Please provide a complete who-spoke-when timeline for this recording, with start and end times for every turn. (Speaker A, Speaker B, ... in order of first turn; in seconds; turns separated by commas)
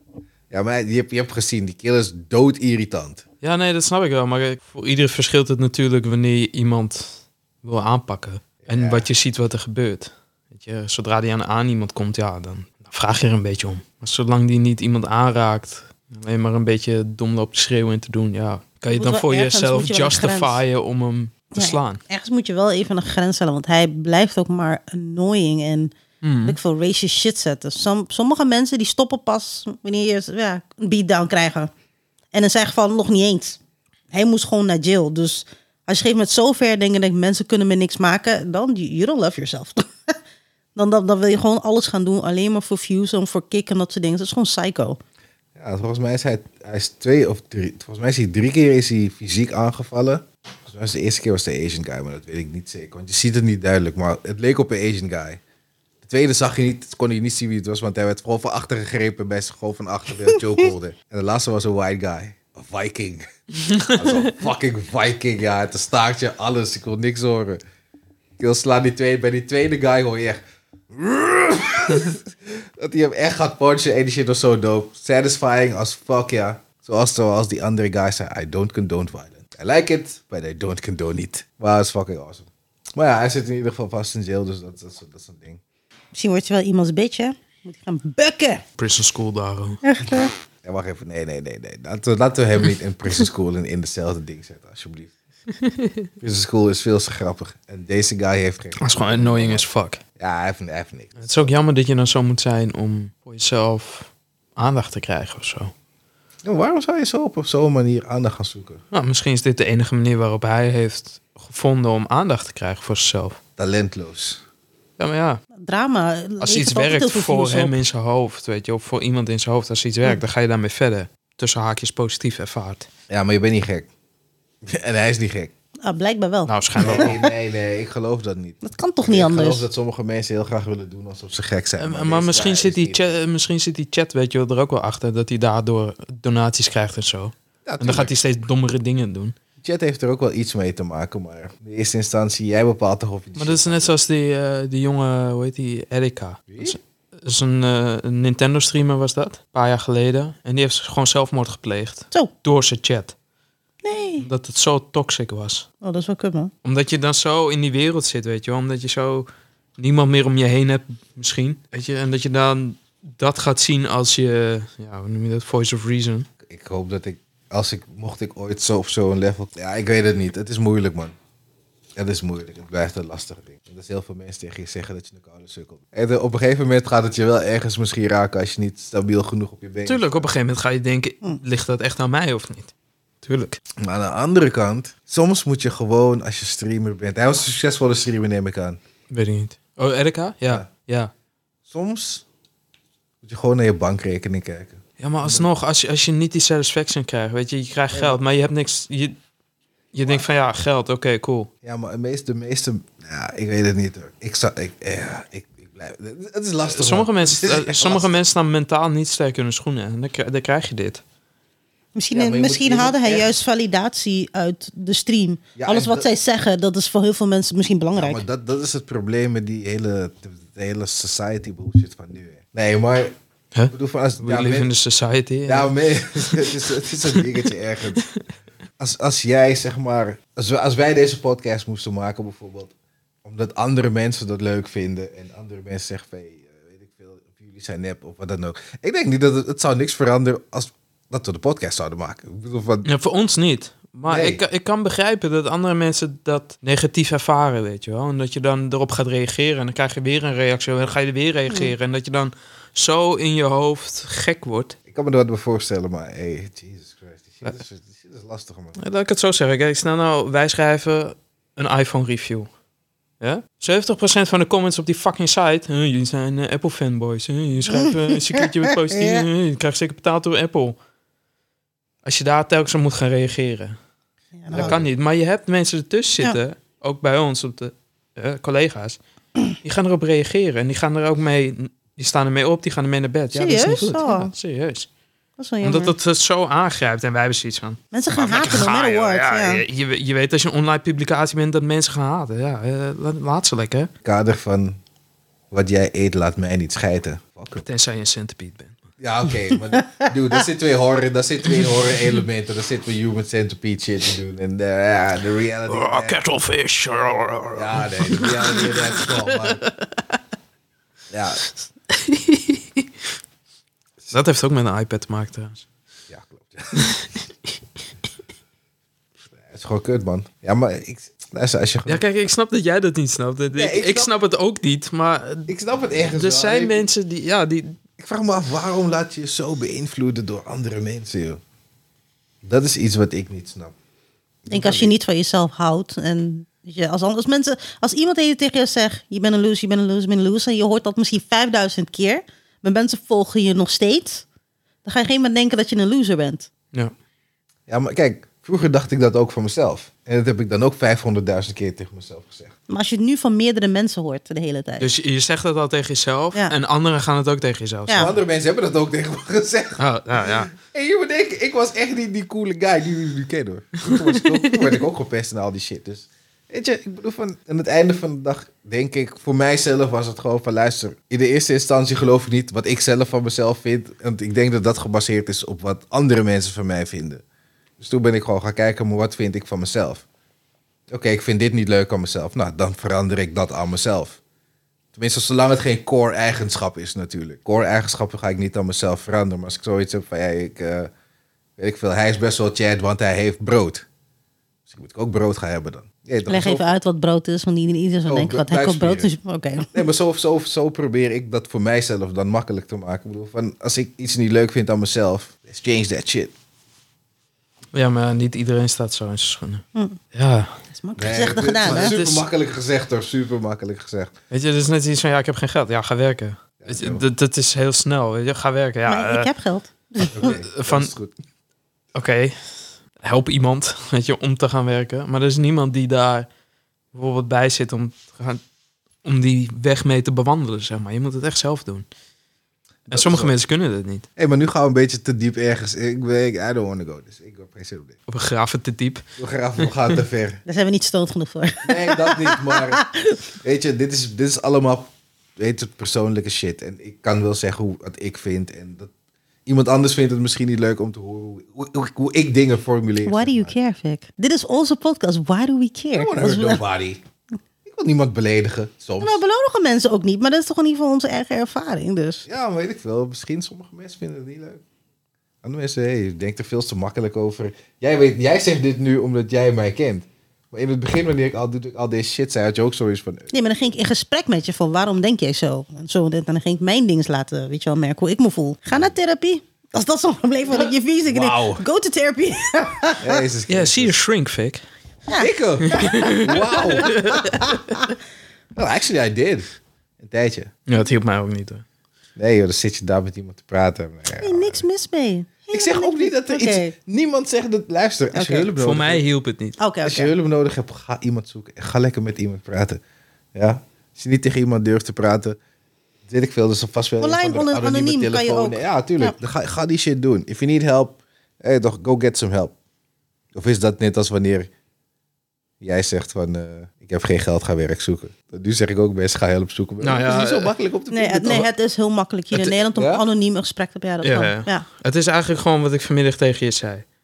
Speaker A: 0.5-3.2, Speaker B: 3.4-22.0, Speaker A: 8.6-9.1, Speaker C: 18.9-20.6, Speaker C: 21.5-25.9, Speaker B: 26.2-26.6, Speaker C: 26.4-31.7, Speaker C: 32.3-33.6, Speaker C: 34.1-40.1, Speaker C: 40.7-45.0, Speaker A: 45.5-55.4, Speaker A: 56.0-63.2, Speaker B: 63.6-64.2, Speaker A: 63.9-67.6, Speaker A: 68.4-70.4, Speaker A: 70.9-85.6, Speaker C: 86.1-88.6, Speaker B: 88.8-89.8, Speaker C: 89.8-90.3, Speaker A: 90.6-95.1, Speaker B: 95.6-96.0, Speaker A: 96.2-101.2, Speaker B: 98.8-100.0, Speaker B: 101.2-105.7, Speaker A: 106.4-108.8, Speaker B: 108.9-113.4, Speaker A: 113.6-114.4, Speaker B: 115.0-115.4, Speaker C: 115.5-117.8, Speaker B: 116.4-122.9, Speaker A: 123.1-123.9, Speaker A: 124.6-125.5, Speaker C: 125.8-127.1, Speaker B: 126.5-127.2, Speaker A: 126.8-133.1, Speaker C: 128.6-129.7, Speaker B: 131.8-139.3, Speaker A: 137.6-138.2, Speaker A: 139.6-143.9, Speaker B: 143.3-153.1, Speaker A: 146.5-146.8, Speaker C: 153.8-154.3, Speaker B: 154.2-155.7, Speaker C: 155.8-156.5, Speaker B: 156.6-159.3, Speaker B: 159.8-166.3, Speaker A: 166.4-171.1, Speaker A: 172.0-180.3, Speaker B: 179.8-183.6, Speaker A: 183.8-188.8, Speaker B: 189.1-191.1, Speaker A: 191.7-192.2, Speaker A: 193.2-195.5, Speaker B: 195.0-199.2, Speaker A: 197.9-198.2, Speaker B: 199.9-201.5, Speaker A: 201.6-208.2, Speaker B: 206.7-211.0, Speaker C: 211.9-218.2, Speaker A: 212.1-213.3, Speaker A: 215.6-216.1, Speaker A: 217.9-223.1, Speaker B: 223.5-226.6, Speaker A: 223.7-224.7, Speaker A: 225.5-228.1, Speaker A: 228.8-232.7, Speaker A: 233.2-242.9, Speaker B: 242.8-254.8, Speaker A: 244.1-244.4, Speaker A: 254.9-258.8, Speaker B: 258.8-262.5, Speaker B: 263.2-270.8, Speaker C: 267.7-269.2, Speaker B: 272.0-273.8, Speaker C: 274.4-274.8, Speaker A: 274.5-274.9, Speaker B: 274.5-279.0, Speaker B: 279.6-284.9, Speaker C: 283.3-284.3, Speaker C: 285.4-285.9, Speaker B: 285.6-293.9, Speaker C: 287.9-289.6, Speaker A: 294.0-294.8, Speaker A: 295.5-297.6, Speaker B: 297.6-298.8, Speaker A: 299.0-306.2, Speaker B: 305.7-310.0, Speaker A: 307.5-309.6, Speaker A: 311.1-311.4, Speaker B: 311.9-312.9, Speaker B: 314.1-315.6, Speaker A: 316.1-317.0, Speaker B: 316.8-317.1, Speaker A: 319.3-322.0, Speaker B: 321.9-325.5, Speaker A: 323.5-324.1, Speaker A: 325.5-326.9, Speaker B: 326.1-327.8, Speaker A: 328.0-331.4, Speaker A: 332.4-333.7, Speaker A: 334.4-334.9, Speaker C: 334.5-344.2, Speaker C: 344.8-346.5, Speaker A: 347.7-352.5, Speaker C: 352.7-354.9, Speaker B: 354.8-358.1, Speaker C: 357.9-358.1, Speaker A: 357.9-377.2, Speaker B: 359.8-360.5, Speaker B: 363.8-364.7, Speaker A: 377.8-380.0, Speaker A: 380.9-384.2, Speaker A: 384.9-390.9, Speaker A: 391.6-393.9, Speaker A: 394.7-396.6, Speaker C: 396.2-399.8, Speaker A: 398.1-399.1, Speaker A: 399.7-406.3, Speaker B: 407.7-410.6, Speaker C: 409.7-410.0, Speaker C: 410.7-412.0, Speaker A: 411.0-414.1, Speaker B: 411.6-412.2, Speaker B: 414.3-419.3, Speaker A: 416.6-417.0, Speaker C: 418.9-420.3, Speaker A: 420.1-421.1, Speaker B: 420.2-420.9, Speaker B: 421.9-426.3, Speaker B: 426.9-428.4, Speaker B: 429.0-431.9, Speaker A: 432.9-433.3, Speaker B: 432.9-434.1, Speaker A: 434.2-437.9, Speaker B: 438.1-439.0, Speaker A: 439.2-440.4, Speaker B: 439.6-440.0, Speaker C: 440.4-443.2, Speaker A: 441.6-442.8, Speaker A: 443.4-448.9, Speaker A: 449.4-453.5, Speaker C: 453.0-456.6, Speaker A: 455.9-457.0, Speaker A: 457.6-459.2, Speaker C: 459.0-462.3, Speaker A: 462.3-464.6, Speaker A: 465.4-473.3, Speaker C: 473.3-483.2, Speaker A: 481.1-481.6, Speaker A: 483.0-484.0, Speaker B: 483.5-484.6, Speaker C: 485.1-487.9, Speaker A: 485.1-487.0, Speaker B: 485.6-487.4, Speaker A: 488.6-490.5, Speaker B: 490.7-491.6, Speaker A: 492.2-494.6, Speaker C: 494.2-496.7, Speaker A: 495.5-499.0, Speaker C: 498.1-498.5, Speaker B: 498.6-499.6, Speaker C: 499.6-500.1, Speaker A: 499.8-502.8, Speaker A: 503.3-505.4, Speaker A: 506.1-512.5, Speaker C: 507.0-509.1, Speaker A: 513.3-514.5, Speaker A: 515.6-521.5, Speaker B: 519.8-520.5, Speaker C: 520.9-524.6, Speaker A: 522.7-523.0, Speaker B: 524.0-526.8